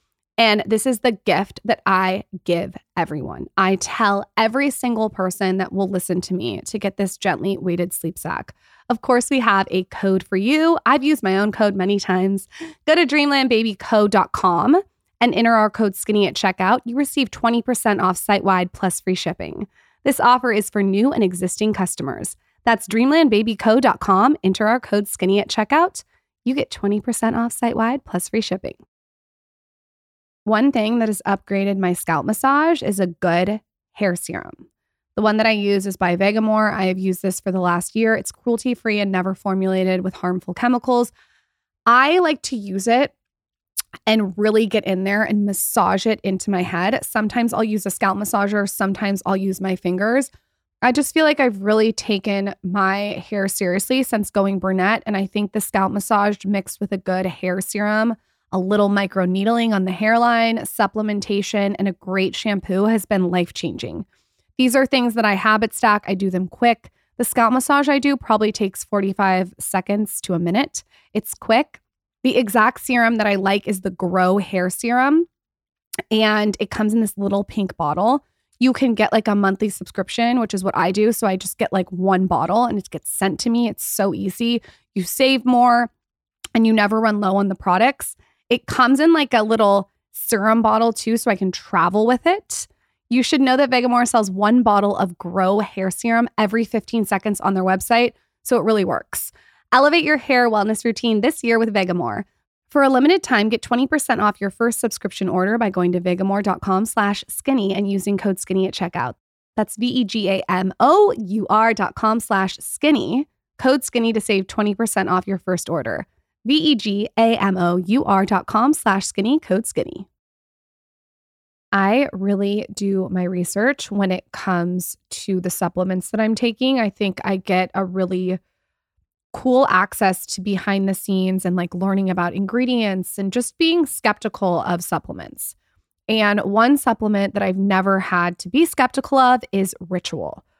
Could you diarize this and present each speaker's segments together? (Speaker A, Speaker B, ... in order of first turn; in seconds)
Speaker A: 0.4-28.8, 30.5-41.1, 41.9-43.1, 44.1-50.3, 50.8-64.1, 64.6-75.3, 76.1-85.9, 86.6-120.1, 121.7-128.4, 129.3-135.6, 136.1-140.4